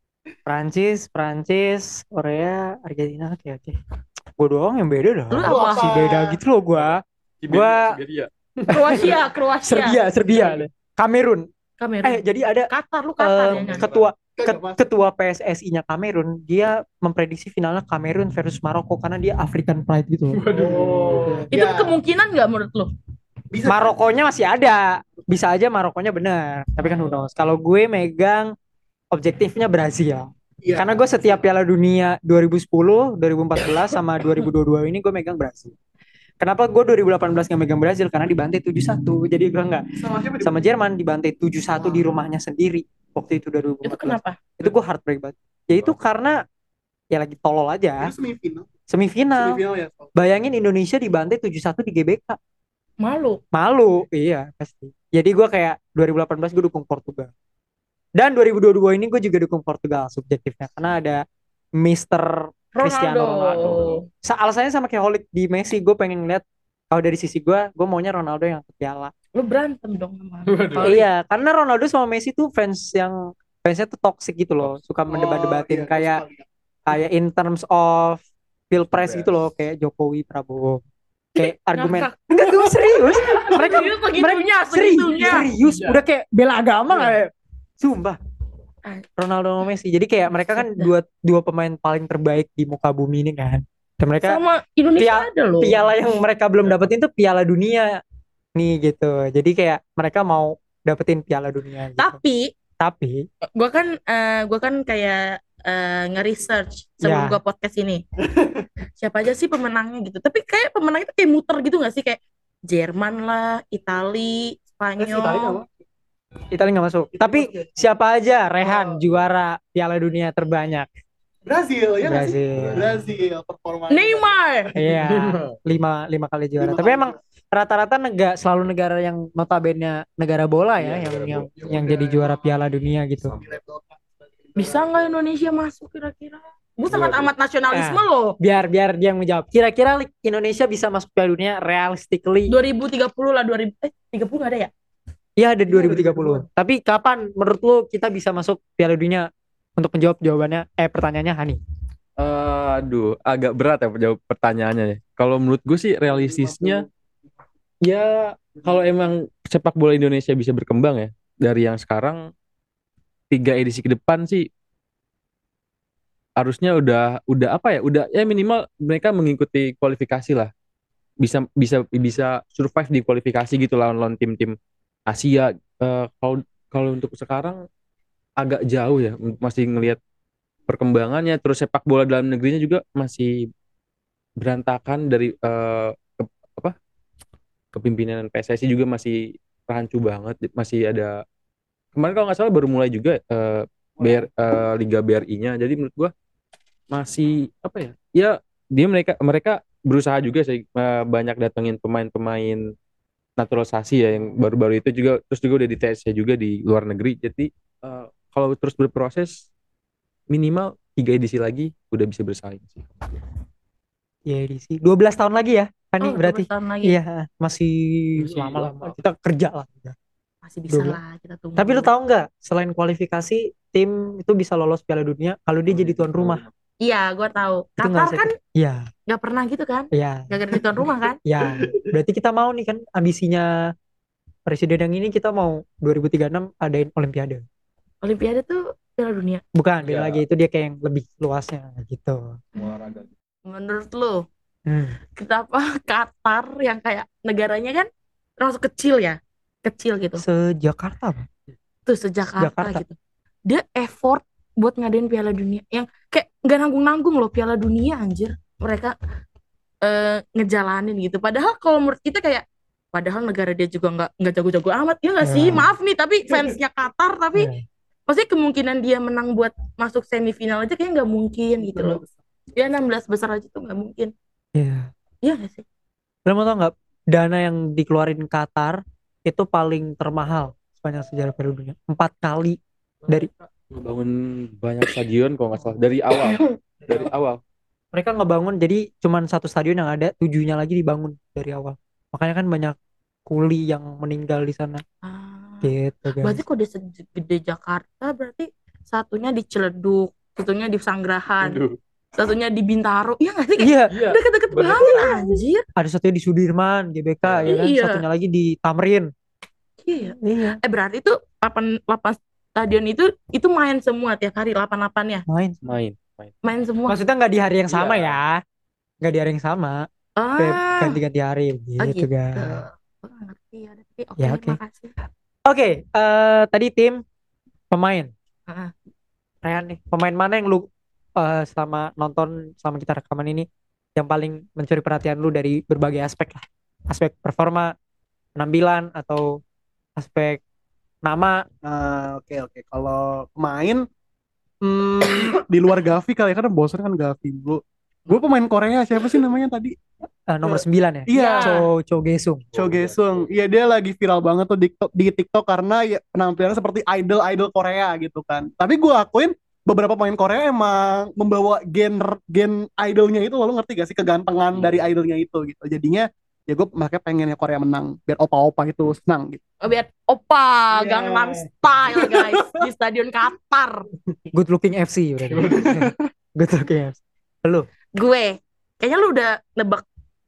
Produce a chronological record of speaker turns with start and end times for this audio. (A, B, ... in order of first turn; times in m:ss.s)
0:00.4-0:03.8 A
0:04.4-0:08.0 A
0:05.3-0:06.2 B
0:05.4-0:06.4 C
0:07.4-0:08.3 D
0:08.6-0:09.1 A
0:08.7-0:10.0 B
0:09.6-0:11.4 A
0:11.8-0:13.9 B
0:12.0-0:20.4 A
0:13.5-0:14.8 C
0:20.3-0:21.3 D
0:20.5-0:22.0 C
0:21.5-0:22.9 B
0:23.5-0:24.0 C
0:23.6-0:28.5 A
0:29.1-0:35.7 A
0:30.6-0:31.4 C
0:36.4-0:39.8 A
0:40.0-0:40.5 C
0:40.4-0:46.4 A
0:41.8-0:42.1 C
0:43.8-0:44.4 B
0:45.7-0:46.0 D
0:47.1-0:48.1 A
0:48.0-0:48.7 C
0:48.9-0:49.6 A
0:49.3-0:50.4 C
0:50.2-0:52.4 A
0:53.0-0:53.4 B
0:53.5-0:57.3 A
0:58.2-1:01.2 A
1:01.8-1:03.7 A
1:02.7-1:04.0 B
1:03.6-1:04.0 D
1:04.2-1:09.1 A
1:09.3-1:11.0 B
1:10.5-1:10.9 D
1:10.8-1:16.2 A
1:15.1-1:16.5 C
1:16.8-1:20.8 A
1:18.9-1:19.3 D
1:21.4-1:25.5 B
1:21.4-1:28.2 A
1:29.2-1:34.4 A
1:30.5-1:30.9 B
1:34.2-1:35.9 B
1:35.0-1:38.0 A
1:38.6-1:42.2 A
1:42.0-1:42.5 B
1:42.8-1:43.2 A
1:43.5-1:48.0 B
1:47.0-1:47.4 A
1:48.3-1:48.6 C
1:49.0-1:55.6 B
1:55.0-1:55.7 C
1:56.5-2:00.9 A
1:57.2-1:57.6 C
1:58.6-1:59.0 C
2:01.4-2:04.3 C
2:02.0-2:03.0 A
2:02.5-2:02.9 D
2:03.9-2:04.7 B
2:04.7-2:13.4 A
2:05.0-2:05.6 D
2:06.6-2:07.2 C
2:10.8-2:12.0 D
2:11.6-2:12.4 C
2:13.3-2:15.1 C
2:14.6-2:18.3 B
2:16.9-2:17.3 D
2:17.7-2:22.5 A
2:22.5-2:24.7 B
2:25.4-2:31.6 A
2:25.7-2:26.4 C
2:32.2-2:36.8 D
2:36.2-2:36.7 C
2:37.8-2:42.3 D
2:43.3-2:44.5 D
2:46.4-2:50.5 D
2:51.2-2:54.6 D
2:55.1-2:57.6 D
2:58.4-3:00.0 D
3:00.7-3:03.5 D
3:04.4-3:06.7 D
3:07.7-3:11.2 D
3:11.9-3:16.1 D
3:16.9-3:22.7 D
3:23.4-3:29.5 D
3:30.3-3:33.1 D
3:34.3-3:40.0 A
3:36.0-3:37.0 B
3:38.2-3:38.9 D
3:40.4-3:41.9 B
3:40.7-3:41.0 A
3:41.6-3:46.4 A
3:45.7-3:46.5 D
3:46.8-3:48.3 B
3:47.8-3:48.9 A
3:49.1-3:51.2 B
3:49.9-3:50.3 A
3:51.2-3:53.7 A
3:54.5-3:57.4 A
3:58.0-3:59.4 B
3:59.5-4:02.4 A
3:59.8-4:00.2 D
4:02.6-4:03.1 D
4:03.4-4:04.3 B
4:04.7-4:05.0 A
4:05.1-4:10.2 B
4:10.2-4:11.3 A
4:11.8-4:18.9 B
4:12.4-4:12.8 A
4:19.8-4:27.5 B
4:25.2-4:25.7 A
4:27.3-4:27.6 A
4:28.1-4:32.0 B
4:31.6-4:32.1 C
4:32.5-4:34.1 B
4:34.5-4:34.9 A
4:35.2-4:35.6 B
4:36.2-4:43.3 A
4:43.7-4:47.4 D
4:47.9-4:54.8 A
4:55.0-5:01.6 B
4:55.6-4:56.4 A
5:01.4-5:01.8 D
5:02.1-5:05.6 B
5:03.6-5:04.0 A
5:03.9-5:05.4 D
5:05.8-5:09.1 A
5:07.2-5:07.5 D
5:07.4-5:08.0 B
5:09.8-5:15.2 B
5:10.2-5:10.6 A
5:15.3-5:15.6 A
5:15.6-5:16.4 D
5:16.4-5:17.0 B
5:16.9-5:18.4 A
5:17.7-5:18.2 D
5:19.0-5:19.9 A
5:20.2-5:21.0 B
5:20.4-5:22.6 A
5:21.8-5:24.9 B
5:24.2-5:24.6 A
5:25.4-5:27.0 A
5:27.7-5:28.1 A
5:28.5-5:28.7 B
5:29.4-5:37.7 A
5:38.4-5:39.4 A
5:40.0-5:40.4 A
5:41.0-5:41.4 A
5:41.6-5:43.8 C
5:44.6-5:49.7 C
5:50.3-5:52.4 A
5:50.4-5:51.6 C
5:51.1-5:51.6 B
5:52.5-5:53.3 D
5:52.6-6:09.4 C
6:04.5-6:04.8 D
6:09.6-6:13.8 B
6:10.7-6:12.4 C
6:14.3-6:17.7 A
6:15.3-6:15.9 D
6:18.0-6:19.8 B